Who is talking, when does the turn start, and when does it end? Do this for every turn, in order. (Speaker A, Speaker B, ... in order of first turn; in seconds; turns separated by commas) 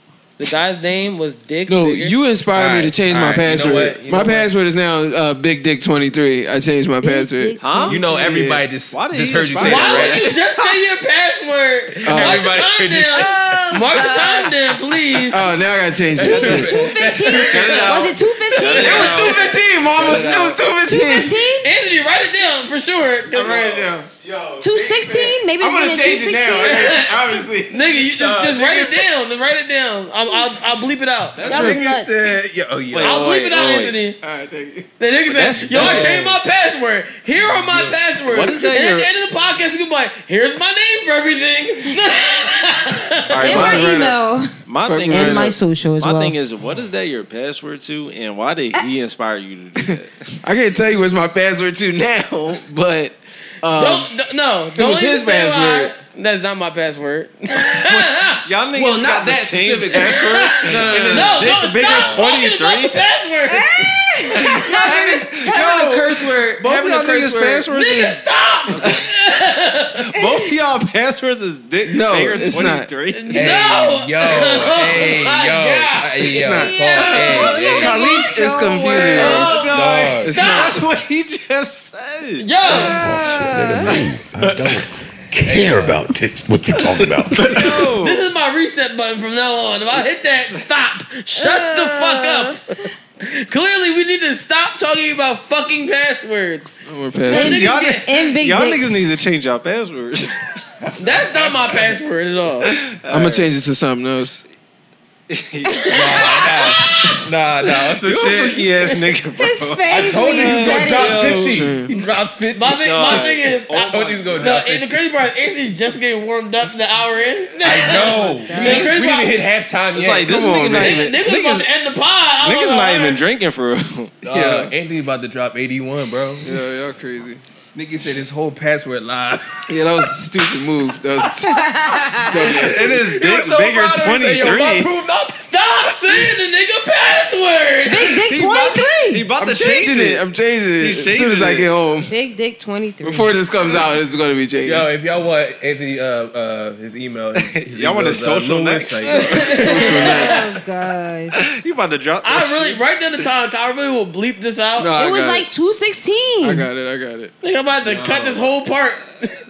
Speaker A: 0.4-2.2, Speaker B: 1.7-8.6, Speaker C: 2.5-4.5, Speaker D: 7.0-8.3, Speaker E: 7.6-8.0, Speaker C: 7.8-10.3, Speaker E: 8.9-10.3, Speaker A: 9.6-15.4, Speaker B: 12.0-12.4, Speaker C: 12.1-13.3, Speaker D: 13.1-14.8, Speaker B: 15.2-16.8, Speaker C: 16.1-19.0, Speaker D: 16.2-19.5, Speaker E: 16.2-16.7, Speaker E: 17.2-19.6, Speaker B: 18.6-21.4, Speaker C: 19.8-20.6, Speaker D: 20.8-21.7, Speaker A: 21.6-23.9, Speaker B: 23.3-27.8, Speaker D: 24.6-27.1, Speaker A: 26.6-27.1, Speaker A: 27.6-31.4, Speaker C: 27.9-29.1, Speaker E: 31.4-31.8, Speaker C: 31.4-33.2, Speaker D: 31.4-32.1, Speaker E: 32.9-34.0, Speaker A: 33.0-34.2, Speaker B: 34.2-34.9, Speaker A: 35.0-43.4, Speaker E: 35.3-36.3, Speaker C: 35.7-36.2, Speaker C: 37.4-38.0, Speaker E: 38.3-39.1, Speaker E: 43.3-44.1, Speaker D: 43.4-46.4, Speaker B: 43.4-44.2, Speaker E: 44.7-50.3, Speaker B: 44.8-45.6, Speaker B: 50.4-54.1, Speaker A: 53.7-58.4, Speaker B: 54.8-55.9, Speaker E: 58.4-63.0, Speaker B: 58.7-62.4, Speaker A: 60.0-63.9, Speaker D: 63.5-65.4, Speaker E: 64.4-68.2, Speaker B: 64.5-67.7, Speaker A: 67.7-70.1, Speaker B: 68.7-69.0, Speaker E: 70.1-73.7, Speaker D: 70.2-70.5, Speaker B: 71.8-72.9, Speaker A: 73.1-76.4, Speaker C: 73.3-78.2, Speaker B: 76.3-76.8, Speaker D: 76.4-79.7, Speaker B: 77.7-79.6, Speaker E: 78.9-82.5, Speaker A: 79.1-80.8, Speaker C: 79.4-80.3, Speaker B: 80.2-80.8, Speaker A: 82.4-83.0, Speaker D: 82.7-83.9, Speaker F: 82.9-87.6, Speaker C: 84.5-84.8, Speaker C: 85.4-86.0, Speaker E: 87.0-88.3, Speaker A: 87.5-96.7, Speaker D: 91.3-92.9, Speaker B: 96.8-97.7, Speaker A: 97.3-98.1, Speaker D: 97.3-99.1, Speaker E: 97.3-100.6, Speaker C: 100.9-101.8, Speaker A: 101.0-102.7, Speaker E: 102.7-103.5, Speaker B: 103.1-104.4, Speaker E: 105.3-106.7, Speaker D: 105.7-107.1, Speaker C: 105.9-108.7, Speaker E: 107.7-111.6, Speaker D: 109.3-111.5, Speaker C: 109.9-114.9, Speaker B: 110.7-111.9, Speaker A: 112.5-119.4, Speaker E: 112.8-114.6, Speaker C: 117.6-120.5, Speaker D: 118.1-118.9, Speaker E: 119.9-121.7, Speaker B: 120.2-121.1, Speaker A: 120.8-123.2, Speaker E: 122.4-124.2, Speaker C: 124.2-126.6, Speaker B: 124.3-124.7, Speaker B: 126.4-127.4, Speaker C: 127.7-129.8, Speaker B: 129.7-133.0, Speaker D: 131.4-132.7, Speaker C: 132.4-135.5, Speaker E: 132.6-134.9, Speaker A: 135.5-138.2, Speaker D: 137.9-139.3, Speaker E: 138.3-140.2, Speaker B: 139.4-142.1, Speaker E: 140.8-141.7, Speaker D: 142.1-143.4, Speaker B: 143.0-144.9, Speaker C: 144.6-149.4, Speaker E: 147.4-149.6, Speaker D: 149.2-151.4, Speaker B: 149.3-150.5, Speaker E: 151.4-152.8, Speaker A: 152.2-154.9, Speaker B: 154.8-155.5, Speaker D: 154.9-156.7, Speaker B: 156.4-157.3, Speaker A: 157.4-159.3, Speaker C: 157.8-158.5